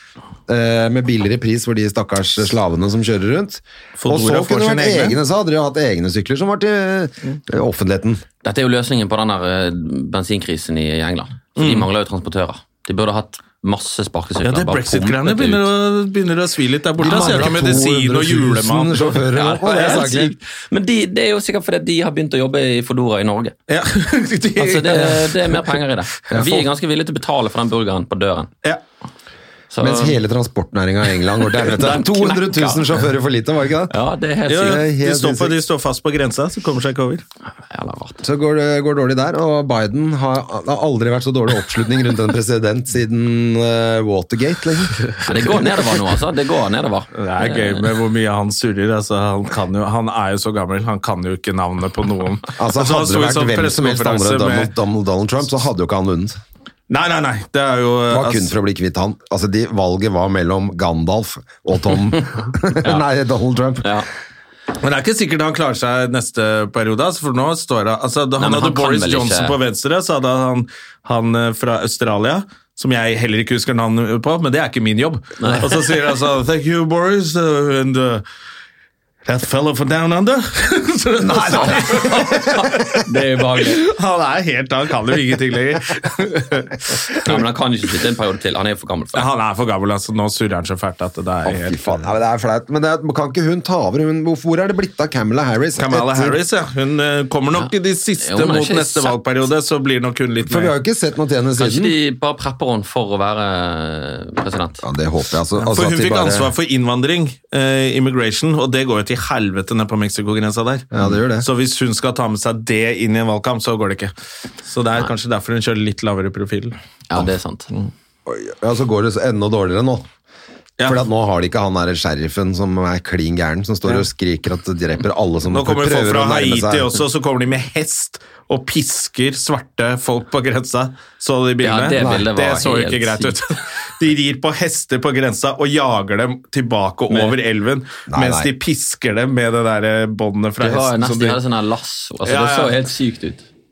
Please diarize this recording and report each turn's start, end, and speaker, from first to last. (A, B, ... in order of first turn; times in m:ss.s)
0:00.5-0:08.2 A
0:04.0-0:05.2 B
0:08.4-0:15.7 C
0:11.6-0:11.9 B
0:14.4-0:20.1 B
0:17.0-0:20.4 A
0:19.3-0:23.6 C
0:23.7-0:25.8 B
0:24.6-0:28.5 C
0:26.3-0:26.6 A
0:29.7-0:30.2 C
0:29.8-0:34.0 A
0:31.6-0:33.0 C
0:33.9-0:34.8 C
0:34.5-0:37.2 B
0:34.6-0:35.6 A
0:37.7-0:38.2 C
0:38.2-0:45.0 A
0:45.2-0:47.9 C
0:47.1-0:54.7 B
0:52.6-0:56.4 A
0:56.9-0:58.5 B
0:58.1-1:03.9 A
1:03.8-1:04.1 C
1:04.8-1:18.2 B
1:08.4-1:09.6 C
1:15.4-1:15.7 C
1:19.3-1:27.4 B
1:21.2-1:23.0 A
1:23.0-1:23.8 C
1:27.2-1:29.3 C
1:29.1-1:32.0 B
1:31.4-1:36.4 A
1:35.8-1:40.7 B
1:37.6-1:39.2 C
1:40.4-1:42.0 A
1:41.6-1:44.8 C
1:44.8-1:46.5 A
1:45.6-1:54.1 B
1:50.9-1:51.5 A
1:54.6-1:56.8 B
1:57.1-1:57.7 C
1:58.3-2:00.1 A
2:00.8-2:06.9 A
2:05.5-2:21.4 B
2:11.6-2:13.4 C
2:12.0-2:12.3 A
2:17.1-2:17.4 C
2:18.1-2:18.5 A
2:20.6-2:23.4 C
2:22.2-2:22.8 B